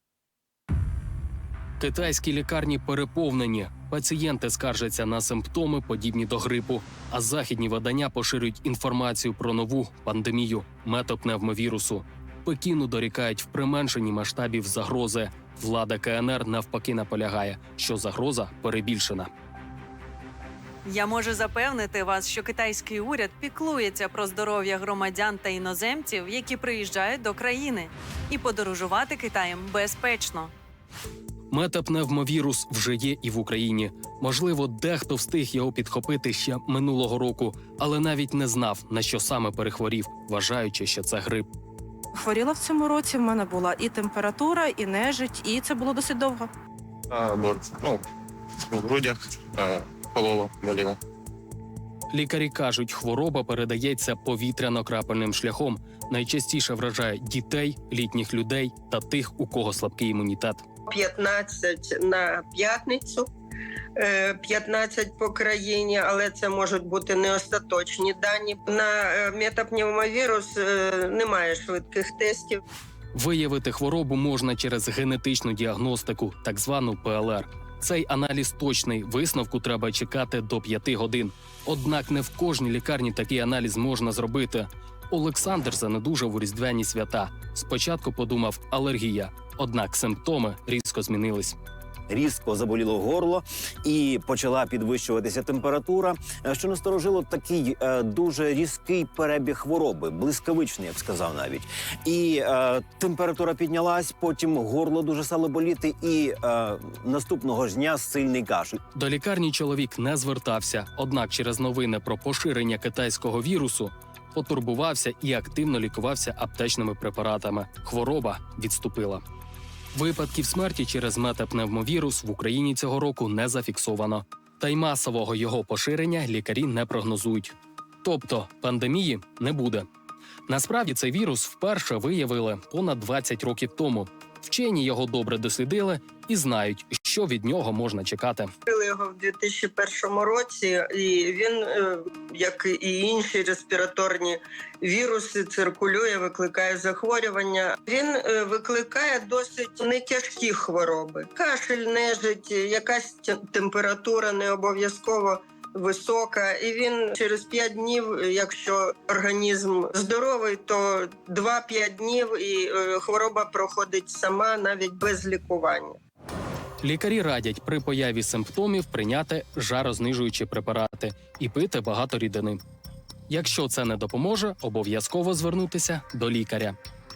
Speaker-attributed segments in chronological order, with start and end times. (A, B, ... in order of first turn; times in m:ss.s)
0:01.8-0:19.3 A
0:20.8-0:30.5 B
0:31.5-0:41.5 A
0:42.2-0:46.5 C
0:47.1-0:48.0 D
0:48.6-0:51.0 D
0:52.1-1:00.6 A
1:00.9-1:03.3 E
1:04.0-1:12.6 E
1:13.2-1:31.6 A
1:32.1-1:48.8 F
1:49.0-1:59.2 A
1:59.9-2:09.9 A
2:10.5-2:18.5 A
2:18.7-2:46.0 E
2:46.8-2:52.6 A
2:53.3-2:56.8 A